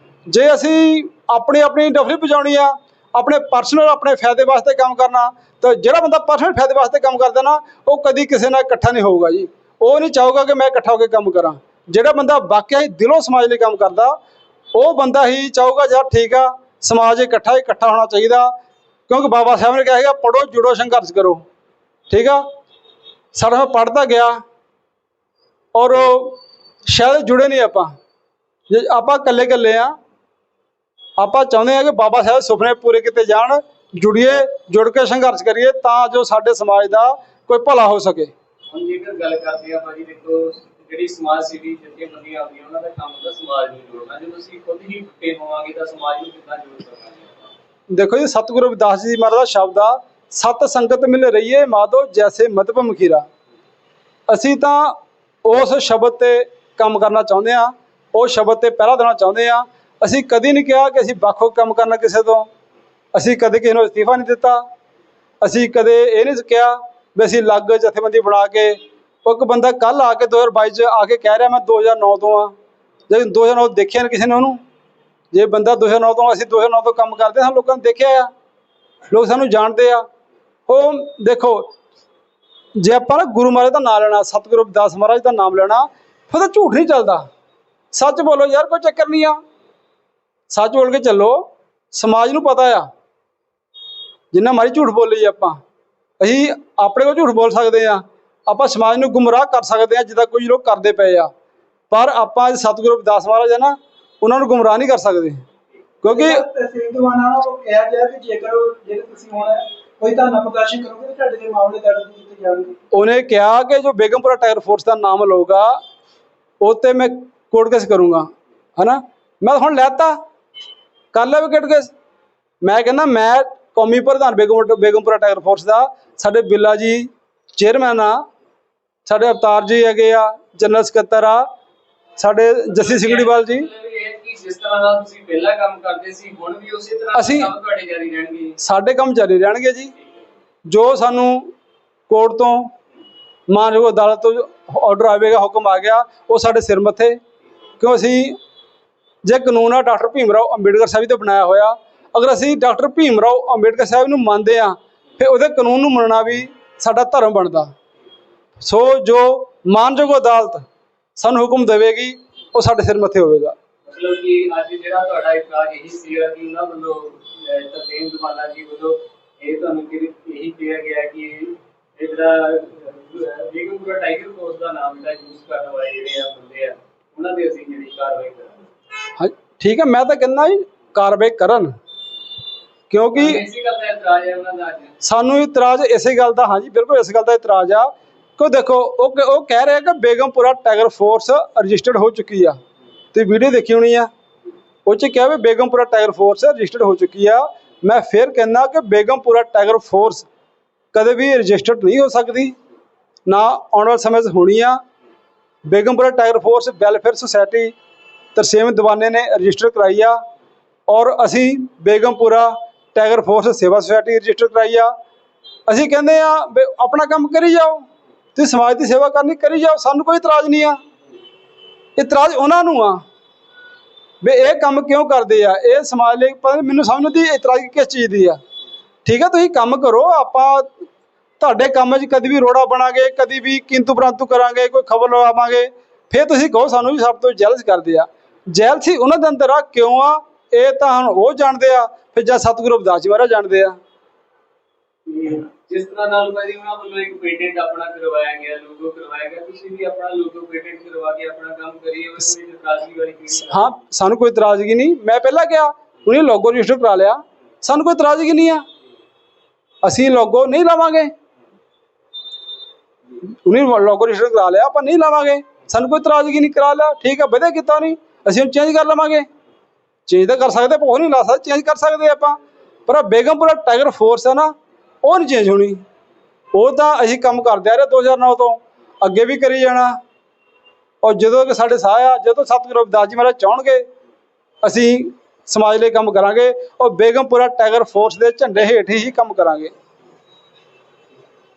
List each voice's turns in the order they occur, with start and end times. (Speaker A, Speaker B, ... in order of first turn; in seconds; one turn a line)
Speaker A: 0.3-14.2
Speaker A: 14.7-18.5
Speaker A: 19.1-21.4
Speaker A: 22.1-22.4
Speaker A: 23.3-24.4
Speaker A: 25.7-27.9
Speaker A: 28.7-29.9
Speaker A: 31.2-38.3
Speaker B: 38.7-47.5
Speaker A: 47.9-53.2
Speaker A: 54.3-62.5
Speaker A: 63.1-64.6
Speaker A: 65.4-72.5
Speaker A: 73.1-74.6
Speaker A: 75.3-78.3
Speaker A: 79.1-80.0
Speaker A: 80.7-81.7
Speaker A: 82.8-87.2
Speaker A: 87.9-89.4
Speaker A: 90.5-92.9
Speaker A: 94.3-95.6
Speaker A: 96.2-101.3
Speaker A: 101.9-105.4
Speaker A: 106.0-106.4
Speaker C: 106.1-112.7
Speaker A: 112.9-115.8
Speaker A: 116.6-120.2
Speaker A: 121.1-121.9
Speaker A: 122.6-128.2
Speaker A: 129.1-131.4
Speaker A: 132.2-133.7
Speaker B: 132.7-138.6
Speaker A: 137.1-137.5
Speaker A: 138.6-139.9
Speaker A: 140.7-141.5
Speaker A: 142.1-142.7
Speaker A: 143.5-147.2
Speaker A: 147.8-148.4
Speaker A: 149.2-157.7
Speaker A: 158.6-163.6
Speaker B: 163.9-178.6
Speaker A: 179.2-181.7
Speaker A: 182.9-183.4
Speaker B: 183.2-184.9
Speaker A: 185.0-192.6
Speaker A: 193.1-194.1
Speaker A: 194.9-200.3
Speaker A: 200.9-202.5
Speaker A: 203.3-204.8
Speaker A: 205.7-207.7
Speaker A: 208.4-210.2
Speaker A: 210.9-214.9
Speaker A: 215.7-217.8
Speaker A: 218.3-220.8
Speaker A: 222.0-223.0
Speaker A: 224.2-228.4
Speaker A: 229.1-230.7
Speaker A: 231.4-243.8
Speaker B: 245.1-253.8
Speaker A: 253.4-258.6
Speaker A: 259.8-261.1
Speaker A: 263.4-269.3
Speaker A: 270.1-275.8
Speaker A: 276.5-280.0
Speaker A: 281.0-283.9
Speaker A: 284.6-289.7